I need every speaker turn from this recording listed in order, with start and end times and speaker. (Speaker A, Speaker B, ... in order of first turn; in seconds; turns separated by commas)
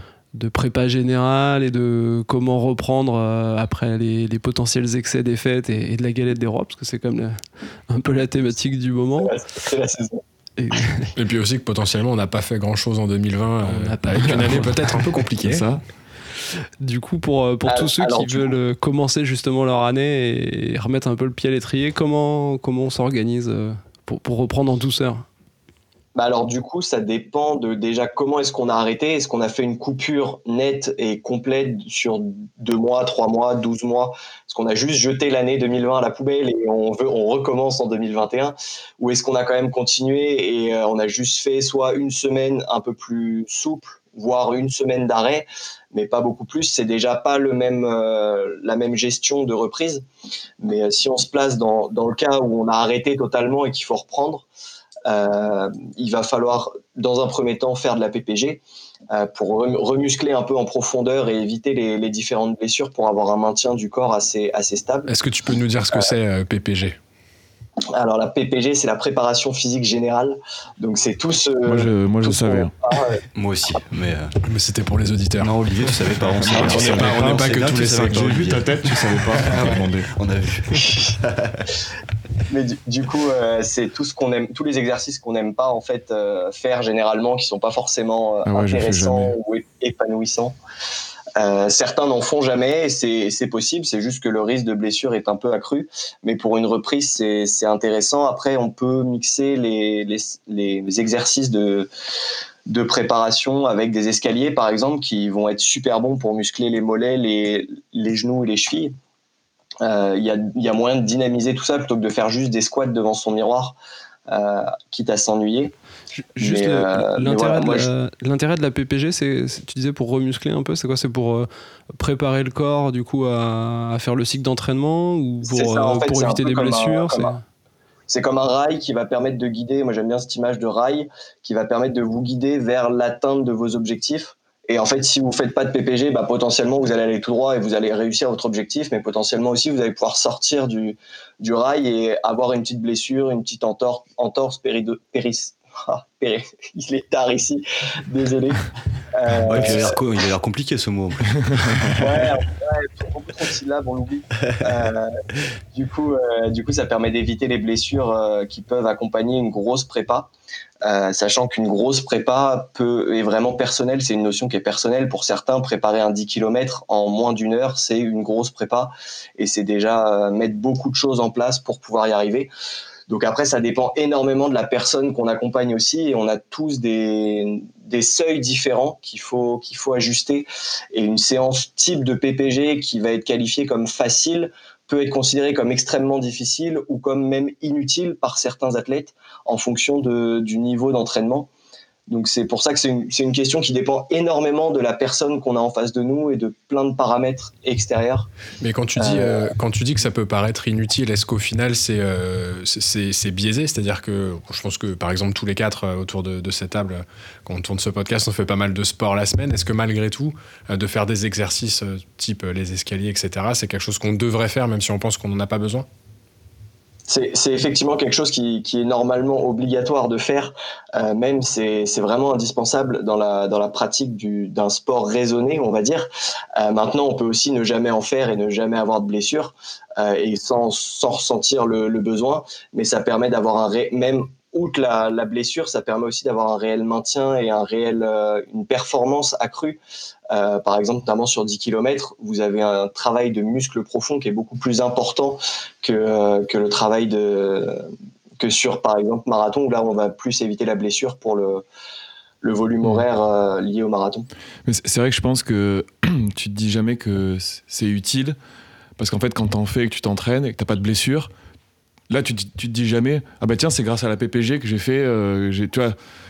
Speaker A: 0.3-9.4, Speaker B: 9.2-10.2, Speaker A: 10.6-11.1, Speaker C: 11.2-15.7, Speaker A: 13.6-15.3, Speaker D: 14.2-14.9, Speaker D: 15.4-15.8, Speaker A: 16.8-25.3, Speaker B: 17.6-18.6, Speaker B: 26.1-50.0, Speaker B: 50.6-54.5, Speaker B: 55.1-65.1, Speaker C: 65.1-67.0, Speaker B: 67.9-73.2, Speaker D: 71.6-72.7, Speaker E: 73.3-74.3, Speaker C: 74.4-78.4, Speaker E: 75.4-81.6, Speaker D: 76.4-80.1, Speaker B: 82.5-90.6, Speaker D: 88.5-89.4, Speaker B: 91.4-101.9, Speaker B: 102.7-108.9, Speaker B: 109.8-113.8, Speaker B: 114.3-115.8, Speaker A: 116.1-127.4, Speaker B: 116.4-117.9, Speaker B: 125.4-127.4, Speaker B: 128.1-150.0, Speaker E: 149.4-152.1, Speaker B: 152.0-155.2, Speaker B: 155.7-160.3, Speaker B: 160.8-172.5, Speaker B: 173.1-191.5, Speaker B: 192.1-198.3, Speaker C: 198.6-215.9, Speaker B: 199.0-199.5, Speaker B: 217.1-239.8, Speaker B: 240.3-247.9, Speaker B: 248.4-251.7, Speaker B: 252.4-254.3, Speaker D: 254.7-258.4, Speaker D: 259.0-261.3, Speaker D: 262.1-266.0